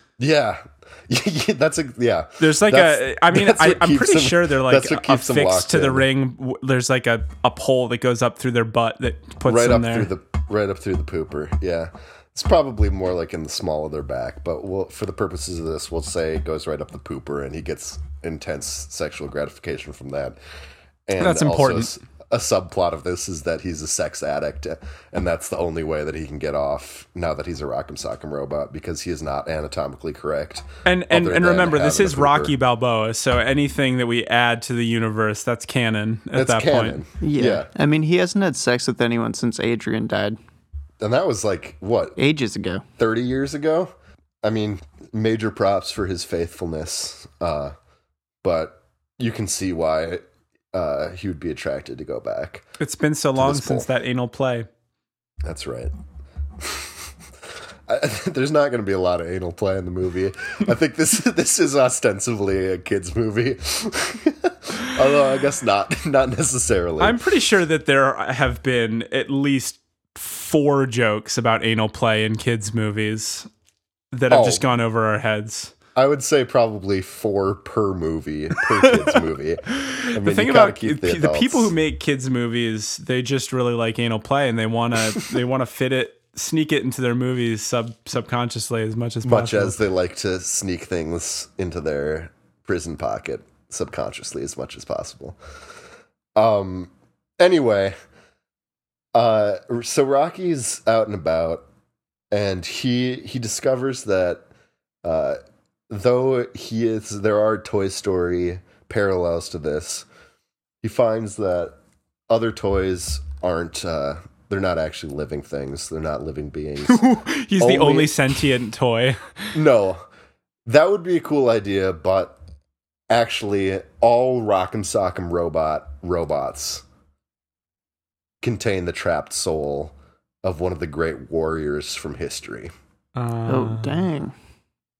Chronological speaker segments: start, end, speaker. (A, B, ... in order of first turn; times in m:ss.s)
0:00.2-0:06.1 A
0:02.4-0:10.1 B
0:09.4-0:20.4 A
0:21.0-0:32.5 A
0:21.2-0:21.9 B
0:30.8-0:37.0 B
0:36.3-0:37.7 A
0:37.2-0:40.4 C
0:41.0-0:42.2 A
0:42.2-0:42.8 C
0:43.0-0:43.9 A
0:44.4-0:47.7 A
0:48.4-0:52.6 A
0:52.8-0:54.7 B
0:53.4-0:53.9 A
0:55.4-0:55.9 A
0:56.6-0:57.0 A
0:57.9-1:07.2 A
1:07.0-1:13.5 B
1:14.1-1:15.7 B
1:14.3-1:14.6 A
1:16.0-1:21.7 A
1:18.6-1:19.0 B
1:19.7-1:29.7 B
1:29.2-1:35.4 A
1:36.4-1:37.9 A
1:39.1-1:41.6 A
1:42.3-1:44.4 A
1:45.0-1:45.4 A
1:45.9-1:50.1 A
1:50.8-1:51.8 A
1:52.3-1:57.0 A
1:56.9-1:59.5 B
1:57.6-1:58.1 A
1:59.5-2:00.0 A
2:00.6-2:02.4 A
2:03.1-2:06.8 A
2:08.4-2:12.7 A
2:13.2-2:14.1 B
2:13.5-2:14.3 C